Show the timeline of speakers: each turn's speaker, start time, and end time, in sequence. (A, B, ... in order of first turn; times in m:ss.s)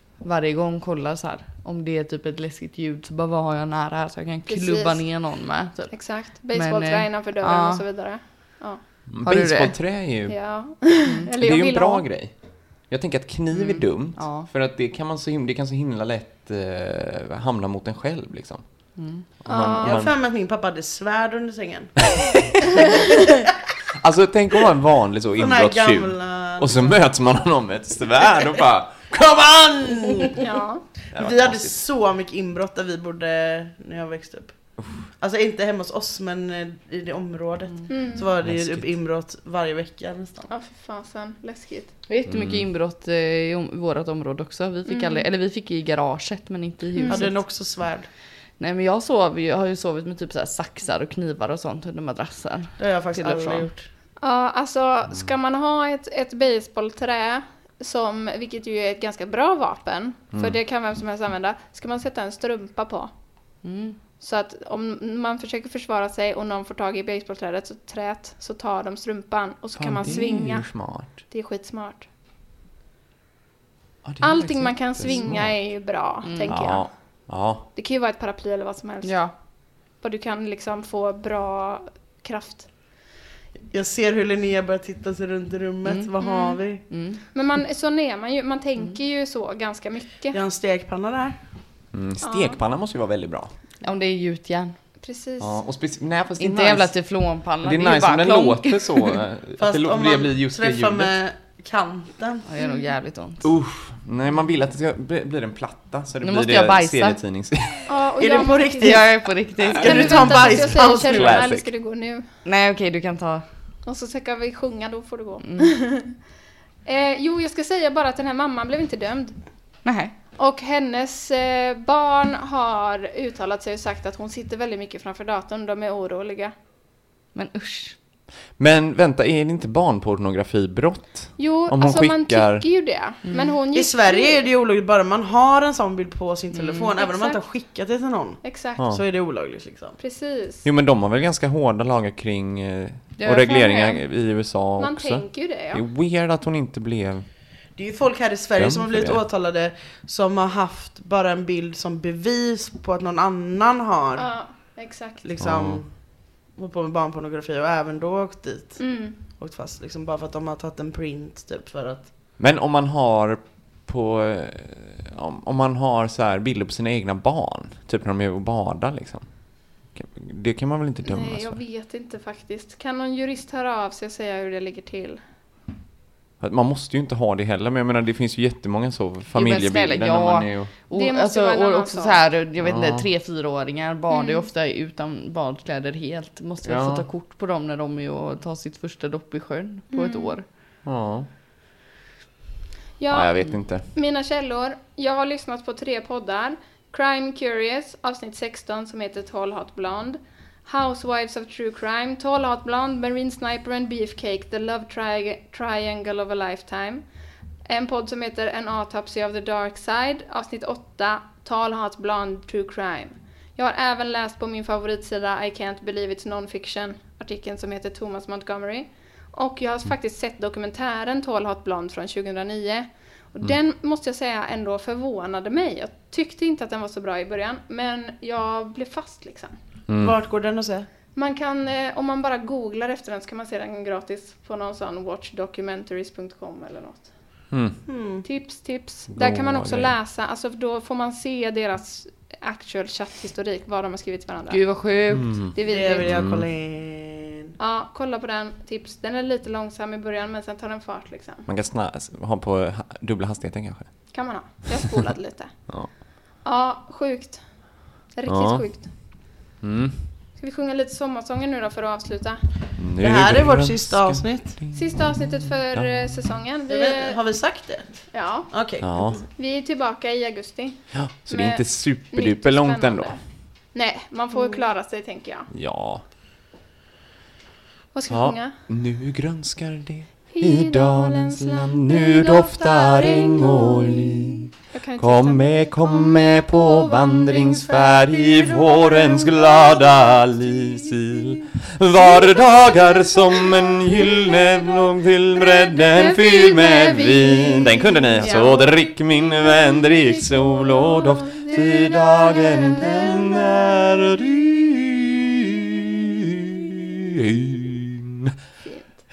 0:00.2-0:07.8 A
0:04.5-0:05.2 B
0:05.9-0:08.8 B
0:09.1-0:10.4 C
0:09.2-0:09.8 A
0:10.3-0:12.0 B
0:11.0-0:11.3 A
0:11.4-0:18.6 C
0:13.5-0:14.5 A
0:19.0-0:19.2 A
0:19.4-0:20.1 C
0:19.4-0:20.0 B
0:19.8-0:22.0 D
0:22.1-0:22.6 C
0:24.0-0:30.4 C
0:25.4-0:27.0 D
0:29.8-0:30.4 D
0:30.4-0:30.8 B
0:31.1-0:31.8 C
0:31.1-0:40.5 D
0:37.9-0:38.3 B
0:38.4-0:38.9 C
0:40.5-0:41.9 B
0:42.1-0:47.4 A
0:42.3-0:42.6 C
0:44.9-0:45.2 B
0:47.0-0:47.3 B
0:47.1-0:48.1 D
0:48.6-0:53.7 A
0:52.8-0:53.9 D
0:54.2-1:03.1 B
1:03.6-1:04.0 A
1:04.2-1:12.1 B
1:09.8-1:11.1 C
1:14.0-1:15.7 C
1:14.2-1:16.9 B
1:16.2-1:16.6 A
1:16.4-1:17.6 C
1:17.7-1:19.2 B
1:19.0-1:19.3 A
1:20.0-1:22.7 B
1:23.7-1:26.8 D
1:25.8-1:26.1 A
1:26.2-1:26.6 B
1:26.9-1:27.2 A
1:27.3-1:30.4 B
1:30.3-1:31.3 D
1:31.9-1:33.5 C
1:32.2-1:32.6 B
1:33.8-1:34.8 A
1:35.0-1:35.6 B
1:35.4-1:36.9 C
1:36.4-1:39.2 A
1:37.6-1:41.1 C
1:39.6-1:42.4 D
1:42.5-1:43.5 A
1:42.6-1:42.9 B
1:43.4-1:47.9 C
1:46.2-1:47.2 A
1:47.9-1:49.0 B
1:48.2-1:51.4 D
1:48.8-1:50.3 A
1:49.8-1:51.7 C
1:49.8-1:52.2 B
1:52.4-1:53.4 A
1:53.8-1:56.2 B
1:56.8-1:59.4 B
1:59.8-2:00.1 A
2:00.4-2:06.5 B
2:07.3-2:08.0 A
2:08.6-2:12.6 C
2:11.4-2:14.4 B
2:13.2-2:13.5 A
2:13.7-2:20.0 D
2:16.5-2:16.9 A
2:17.0-2:17.4 B
2:18.4-2:18.8 B
2:20.0-2:20.6 B
2:20.6-2:27.2 C
2:23.2-2:24.0 A
2:24.8-2:25.8 B
2:27.8-2:34.3 D
2:28.6-2:29.2 C
2:34.2-2:35.3 B
2:35.2-2:35.9 D
2:35.4-2:35.8 C
2:36.5-2:42.1 D
2:38.8-2:39.2 B
2:42.4-2:49.3 C
2:49.9-2:51.6 C
2:51.0-2:55.2 B
2:56.4-3:00.7 C
2:59.3-3:10.4 A
3:00.9-3:02.2 B
3:02.6-3:03.0 C
3:04.1-3:04.4 B
3:06.6-3:07.0 C
3:09.9-3:10.4 B
3:10.8-3:11.3 C
3:13.0-3:27.0 B
3:13.1-3:13.9 C
3:27.6-3:49.6 B
3:49.9-3:50.1 C
3:50.0-3:50.9 D
3:51.1-3:57.1 B
3:57.5-3:57.8 C
3:57.9-3:58.2 D
3:58.2-4:04.6 B
3:59.1-3:59.9 C
4:04.5-4:05.4 A
4:05.1-4:06.4 C
4:05.5-4:06.2 B
4:05.6-4:07.5 D
4:07.6-4:11.4 B
4:11.4-4:14.1 C
4:14.1-4:15.7 B
4:16.4-4:17.4 B
4:18.1-4:18.9 B
4:18.2-4:18.6 C
4:19.6-4:20.0 C
4:20.4-4:22.4 B
4:22.8-4:26.2 C
4:23.0-4:24.6 D
4:24.7-4:27.2 B
4:26.7-4:29.2 D
4:28.1-4:33.2 B
4:28.8-4:29.2 C
4:30.9-4:33.2 C
4:33.7-4:35.5 B
4:35.5-4:36.0 C
4:37.9-4:38.5 B
4:38.1-5:08.3 C
4:40.3-4:44.2 B
4:44.7-4:47.9 B
4:47.8-4:51.4 D
4:52.0-4:54.0 D
4:55.7-4:58.6 B
4:58.2-4:58.7 D
4:59.2-5:03.5 B
5:08.6-5:09.0 B